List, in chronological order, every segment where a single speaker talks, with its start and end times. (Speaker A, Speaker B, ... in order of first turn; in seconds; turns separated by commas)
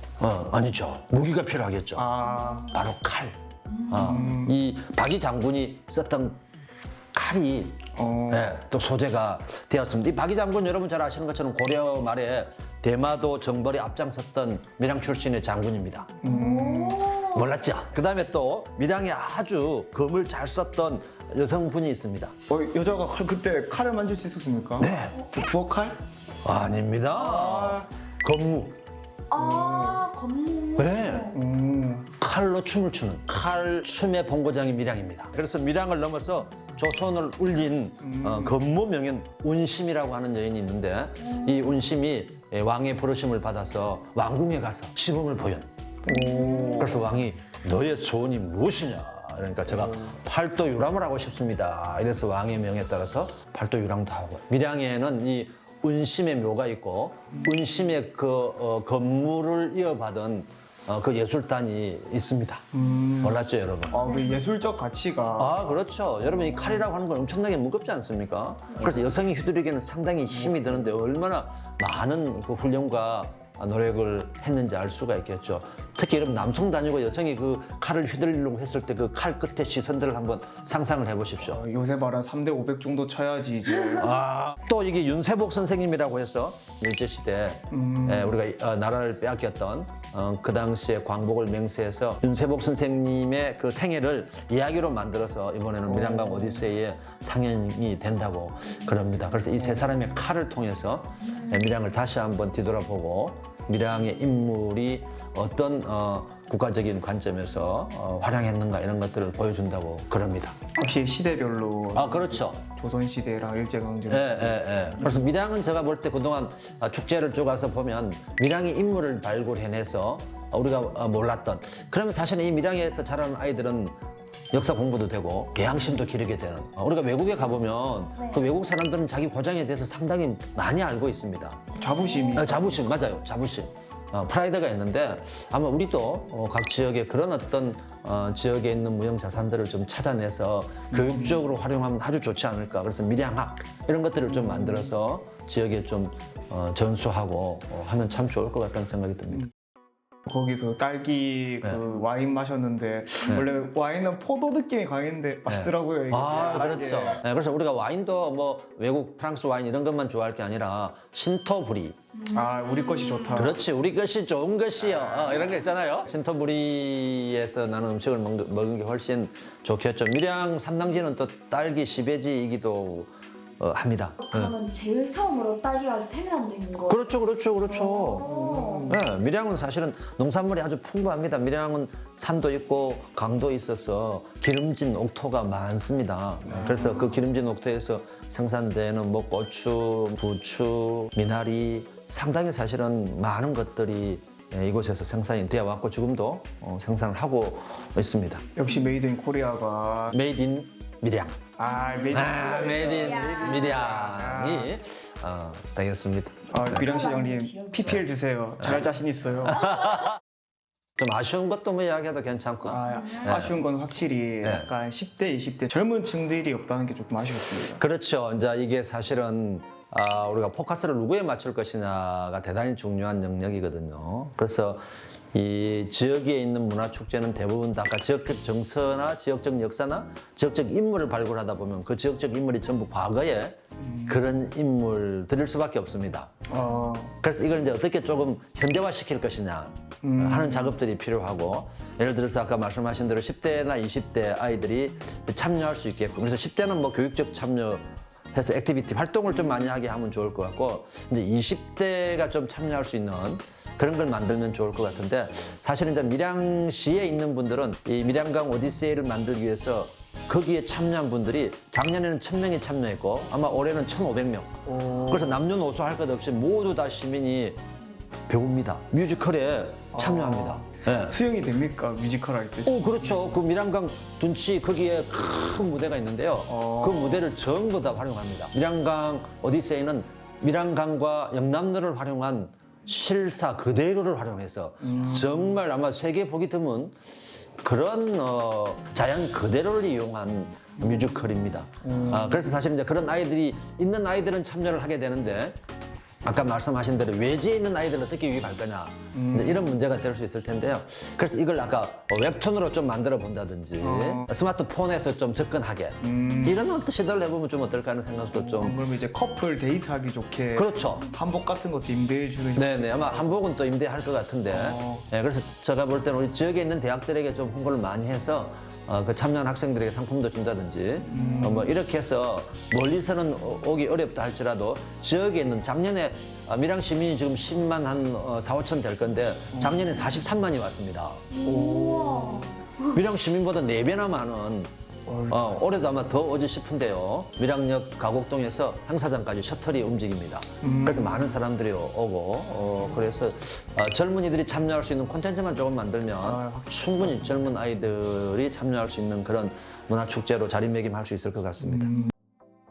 Speaker A: 0.2-2.1, Speaker B: 1.9-2.7, Speaker C: 2.2-2.6, Speaker A: 2.7-3.3, Speaker C: 3.7-4.4, Speaker A: 3.9-6.4, Speaker B: 3.9-4.5, Speaker A: 7.1-16.1, Speaker B: 7.9-8.5, Speaker B: 16.2-17.1, Speaker C: 16.2-17.5, Speaker A: 17.1-22.3, Speaker B: 22.5-26.0, Speaker A: 24.8-25.3, Speaker A: 26.4-28.8, Speaker B: 27.1-27.9, Speaker C: 29.3-31.4, Speaker B: 29.3-30.0, Speaker A: 30.8-31.3, Speaker B: 31.3-32.1, Speaker A: 32.2-45.7, Speaker B: 38.0-38.6, Speaker B: 46.0-47.0, Speaker C: 46.1-47.0, Speaker A: 46.8-62.7, Speaker B: 62.7-63.4, Speaker A: 63.2-64.0, Speaker B: 63.9-65.6, Speaker C: 64.0-64.4, Speaker A: 65.4-81.6, Speaker B: 70.5-70.8, Speaker B: 81.4-84.2, Speaker A: 84.0-110.6, Speaker B: 87.7-88.4, Speaker B: 95.9-96.7, Speaker B: 110.7-115.3, Speaker A: 111.9-112.6, Speaker A: 114.1-124.0, Speaker A: 124.5-131.7, Speaker C: 128.2-128.5, Speaker C: 131.8-132.4, Speaker B: 131.8-132.8, Speaker A: 132.3-149.5, Speaker B: 140.9-141.4, Speaker B: 144.3-144.9, Speaker B: 150.3-157.2, Speaker A: 155.5-162.0, Speaker B: 162.3-163.6, Speaker C: 162.3-163.4, Speaker A: 163.3-174.5, Speaker B: 165.0-165.3, Speaker C: 174.2-177.1, Speaker A: 176.9-178.3, Speaker C: 177.7-179.0, Speaker B: 178.2-179.0, Speaker A: 178.9-198.5, Speaker B: 186.4-187.1, Speaker B: 198.6-200.2, Speaker A: 200.1-201.4, Speaker B: 201.6-204.8, Speaker C: 201.6-203.8, Speaker A: 202.1-206.9, Speaker B: 206.5-209.7, Speaker C: 206.7-207.9, Speaker A: 208.6-208.9, Speaker A: 209.4-210.2, Speaker A: 211.0-213.6, Speaker B: 212.7-217.8, Speaker A: 214.4-214.7, Speaker A: 217.7-224.8, Speaker A: 225.3-236.4, Speaker B: 233.8-234.2, Speaker B: 236.5-237.2, Speaker A: 237.2-267.6, Speaker B: 240.0-240.7, Speaker B: 264.7-265.4, Speaker A: 268.3-271.2, Speaker B: 269.9-273.4, Speaker A: 272.6-295.6, Speaker B: 276.5-277.3, Speaker B: 284.8-285.6, Speaker B: 291.8-292.5, Speaker A: 296.2-308.8, Speaker B: 299.1-299.7, Speaker B: 303.8-304.3, Speaker B: 306.0-306.6, Speaker B: 308.3-313.4, Speaker A: 310.5-311.1, Speaker A: 312.5-331.3, Speaker B: 314.5-315.1, Speaker B: 321.0-321.7, Speaker C: 321.1-321.6, Speaker B: 329.5-330.0, Speaker C: 331.3-333.0, Speaker B: 331.4-332.6, Speaker A: 332.9-334.7, Speaker B: 335.1-335.7, Speaker A: 335.3-352.0, Speaker B: 340.6-341.4, Speaker B: 346.2-347.4, Speaker B: 351.7-352.1